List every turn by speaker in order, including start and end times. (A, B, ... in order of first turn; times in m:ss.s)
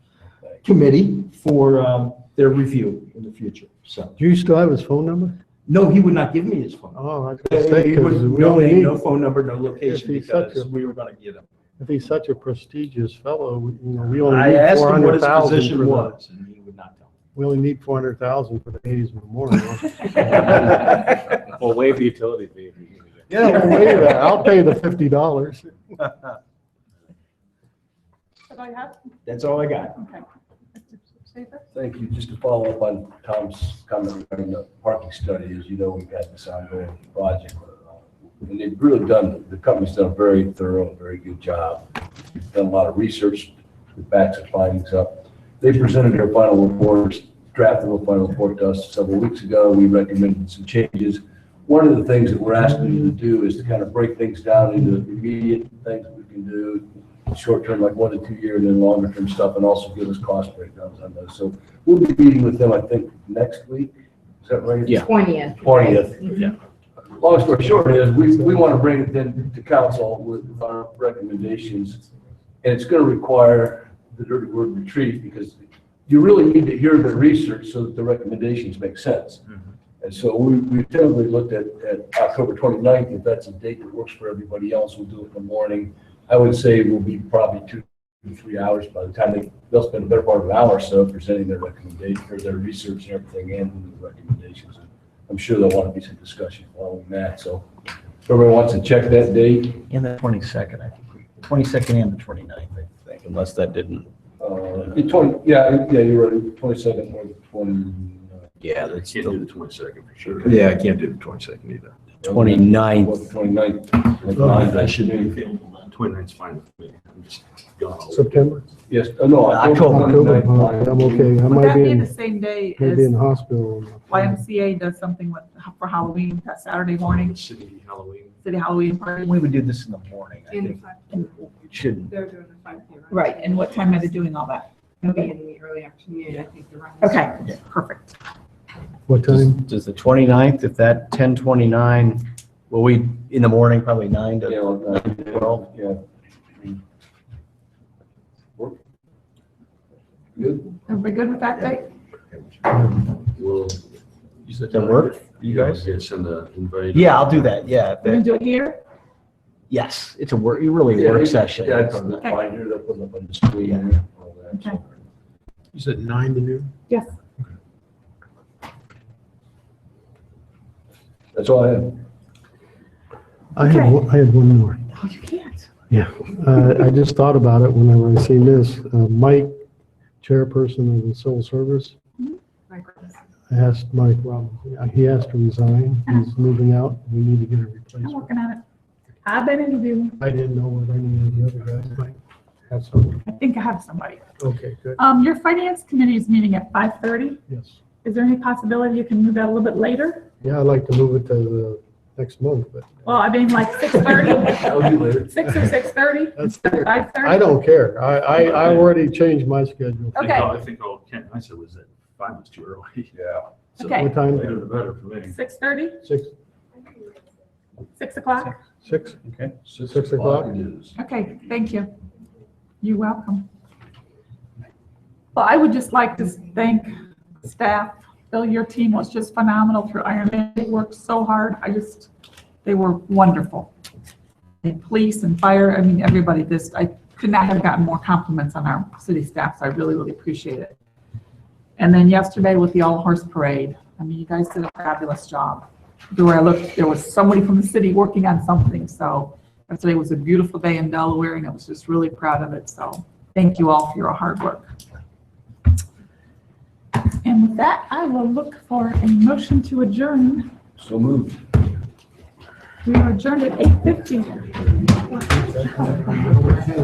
0:00.6-0:04.2 A
0:04.2-0:05.3 B
0:05.7-0:11.4 A
0:06.9-0:09.0 B
0:09.7-0:10.7 B
0:11.8-0:16.2 B
0:14.3-0:17.2 A
0:17.3-0:20.8 B
0:21.4-0:23.3 C
0:23.3-0:25.7 B
0:28.5-0:29.2 D
0:29.2-0:30.0 A
0:30.0-0:30.2 D
0:30.8-0:31.6 D
0:31.7-0:41.9 E
0:42.4-1:06.4 E
1:07.1-1:12.0 E
1:12.6-1:19.4 E
1:20.0-1:37.7 E
1:38.2-1:39.8 E
1:39.9-1:44.1 F
1:44.4-1:48.6 E
1:48.6-1:49.4 F
1:48.8-1:50.6 C
1:50.4-1:51.9 A
1:52.2-1:53.2 F
1:52.2-1:55.3 E
1:54.4-1:55.4 A
1:55.4-1:58.5 C
1:58.1-1:58.6 B
1:58.9-2:01.4 E
1:59.5-2:00.1 F
1:59.8-2:02.1 B
2:01.5-2:03.1 D
2:02.8-2:04.4 B
2:04.1-2:07.4 D
2:07.0-2:08.4 C
2:08.4-2:09.5 D
2:09.2-2:12.2 F
2:10.5-2:10.9 G
2:12.1-2:13.9 G
2:13.1-2:15.3 D
2:15.3-2:17.3 G
2:17.0-2:18.2 D
2:19.1-2:19.7 B
2:19.3-2:25.7 F
2:24.4-2:26.0 E
2:26.5-2:26.8 E
2:30.4-2:30.8 E
2:30.9-2:31.9 D
2:33.4-2:33.8 C
2:34.5-2:35.8 F
2:34.7-2:37.7 C
2:36.9-2:38.2 F
2:38.0-2:38.8 D
2:39.7-2:42.2 F
2:40.9-2:44.9 E
2:43.6-2:44.0 F
2:44.5-2:44.8 D
2:51.3-2:52.0 E
2:53.6-2:54.9 B
2:53.6-2:54.0 D
2:54.9-2:55.7 D
2:55.9-2:59.5 B
3:00.2-3:02.0 B
3:03.5-3:08.3 B
3:08.0-3:08.6 D
3:09.2-3:10.2 D
3:10.2-3:12.2 B
3:12.7-3:13.2 B
3:13.2-3:14.2 D
3:14.4-3:15.0 B
3:15.0-3:17.4 D
3:17.5-3:17.8 B
3:18.0-3:20.2 D
3:20.4-3:23.2 B
3:23.1-3:27.5 D
3:24.2-3:25.3 E
3:26.4-3:30.6 B
3:28.4-3:28.9 C
3:30.1-3:30.6 D
3:30.2-3:33.1 C
3:33.1-3:33.4 E
3:33.8-3:34.1 D
3:33.8-3:35.4 C
3:33.8-3:34.6 B
3:35.2-3:36.0 D
3:36.0-3:36.3 B
3:38.0-3:38.6 D
3:38.8-3:39.2 B
3:39.2-3:39.5 F
3:39.6-3:41.0 E
3:39.8-3:40.5 B
3:41.0-3:41.9 D
3:42.8-3:43.5 D
3:45.3-3:52.1 D
3:52.6-3:53.7 D
3:54.6-4:00.8 D
4:01.8-4:14.7 D
4:17.2-4:20.5 D
4:20.8-4:21.4 E
4:22.8-4:26.3 D
4:26.2-4:26.7 B